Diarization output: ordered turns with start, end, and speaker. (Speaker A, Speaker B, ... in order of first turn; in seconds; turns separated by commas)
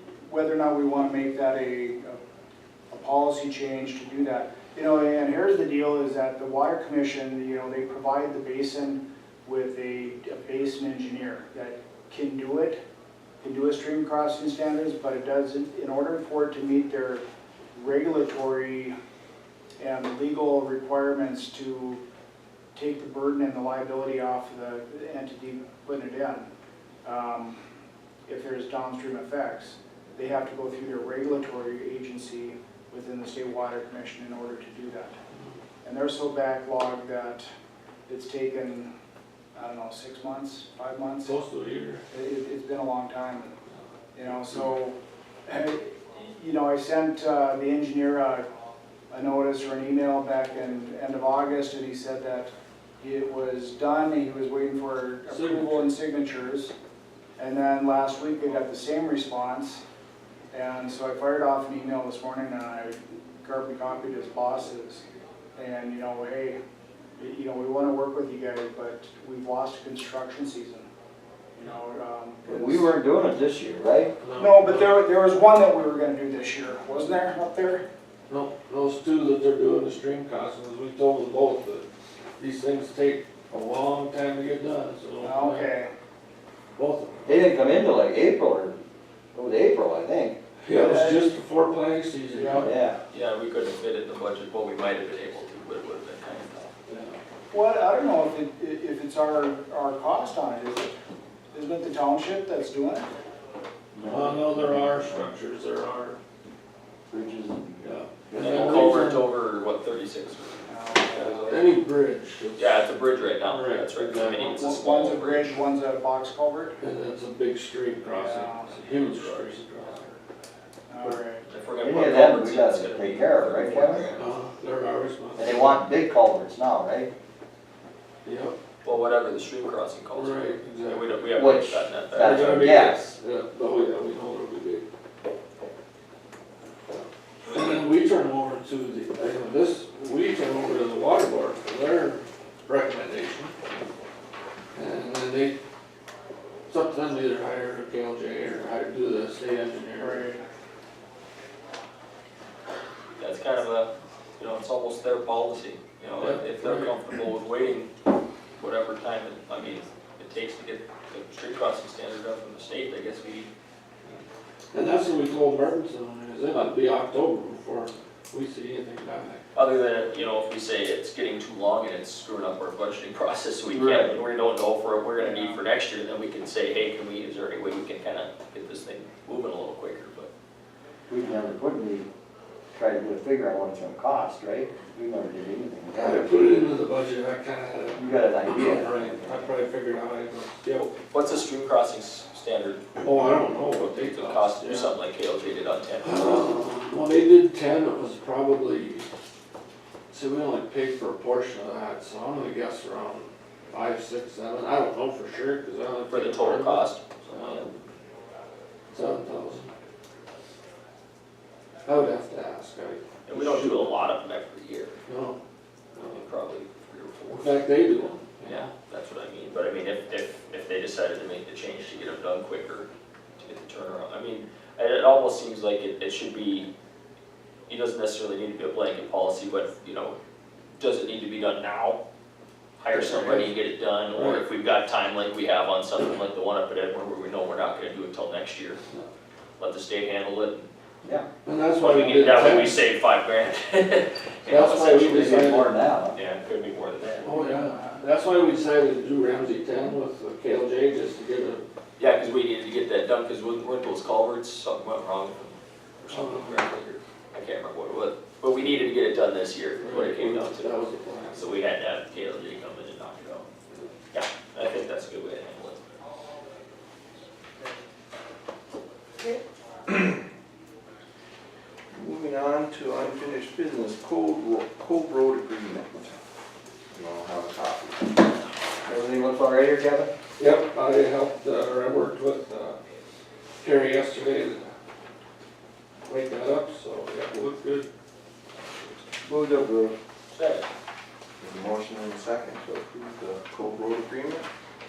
Speaker A: 0.2-2.2, Speaker A: 2.9-12.8, Speaker A: 13.4-17.2, Speaker A: 17.7-18.9, Speaker A: 19.8-22.0, Speaker A: 22.7-26.5, Speaker A: 27.0-27.6, Speaker A: 28.3-35.2, Speaker A: 35.8-37.5, Speaker A: 38.1-38.9, Speaker A: 39.5-41.3, Speaker B: 41.2-42.0, Speaker A: 42.1-43.6, Speaker A: 44.1-48.5, Speaker A: 49.1-56.7, Speaker B: 55.3-55.9, Speaker A: 57.4-59.8, Speaker A: 60.5-65.0, Speaker A: 65.5-66.6, Speaker A: 67.2-70.9, Speaker A: 71.5-72.9, Speaker C: 72.5-74.1, Speaker B: 74.2-75.0, Speaker A: 74.4-77.8, Speaker B: 78.3-81.8, Speaker B: 82.4-85.7, Speaker A: 85.2-85.9, Speaker B: 86.8-87.4, Speaker C: 87.2-88.8, Speaker C: 89.3-90.4, Speaker B: 90.7-92.7, Speaker A: 90.7-91.3, Speaker A: 92.4-92.7, Speaker C: 92.6-93.0, Speaker D: 93.1-96.7, Speaker B: 96.9-97.2, Speaker A: 97.5-101.0, Speaker A: 101.5-103.1, Speaker C: 104.0-104.6, Speaker B: 104.0-106.2, Speaker C: 107.1-109.1, Speaker B: 107.8-109.3, Speaker D: 108.3-111.6, Speaker A: 110.7-111.6, Speaker B: 111.3-112.9, Speaker D: 112.6-115.5, Speaker B: 113.4-114.6, Speaker A: 114.4-116.8, Speaker B: 116.8-120.1, Speaker A: 118.1-118.8, Speaker A: 120.9-121.4, Speaker D: 121.5-124.2, Speaker C: 121.8-124.1, Speaker B: 124.2-125.8, Speaker C: 125.4-127.1, Speaker B: 128.2-128.6, Speaker D: 128.8-132.7, Speaker B: 130.1-131.2, Speaker C: 131.4-133.1, Speaker B: 132.2-134.8, Speaker B: 136.9-143.6, Speaker B: 144.7-145.6, Speaker B: 146.7-150.2, Speaker A: 149.9-150.4, Speaker D: 153.2-157.9, Speaker B: 156.2-156.9, Speaker D: 158.6-163.5, Speaker B: 164.7-169.4, Speaker D: 169.5-180.3, Speaker C: 173.7-174.2, Speaker C: 181.1-182.1, Speaker C: 182.7-186.3, Speaker B: 185.9-191.0, Speaker C: 187.9-189.5, Speaker D: 191.1-193.0, Speaker B: 193.0-194.9, Speaker D: 194.2-196.4, Speaker B: 196.0-199.1, Speaker B: 200.1-207.7, Speaker D: 206.1-207.8, Speaker B: 208.9-209.7, Speaker B: 211.8-213.9, Speaker D: 213.2-215.0, Speaker B: 215.1-215.4, Speaker B: 215.9-216.2, Speaker D: 216.1-217.5, Speaker B: 217.3-218.7, Speaker D: 218.4-226.7, Speaker D: 227.7-230.2, Speaker D: 230.8-232.0, Speaker D: 232.8-238.8, Speaker B: 232.9-233.5, Speaker B: 234.1-234.4, Speaker D: 239.6-240.7, Speaker B: 241.4-242.8, Speaker D: 241.8-245.3, Speaker B: 244.5-245.8, Speaker C: 244.9-246.2, Speaker D: 246.1-247.3, Speaker B: 247.2-251.7, Speaker A: 247.4-247.8, Speaker D: 252.0-260.7, Speaker B: 256.1-256.8, Speaker B: 259.8-261.4, Speaker D: 261.4-263.5, Speaker D: 264.1-265.8, Speaker E: 271.9-276.1, Speaker E: 276.9-278.2, Speaker C: 278.8-280.1, Speaker B: 280.4-282.8, Speaker B: 283.6-284.7, Speaker B: 286.1-287.9, Speaker C: 289.2-290.0, Speaker D: 290.3-290.7, Speaker E: 291.4-294.5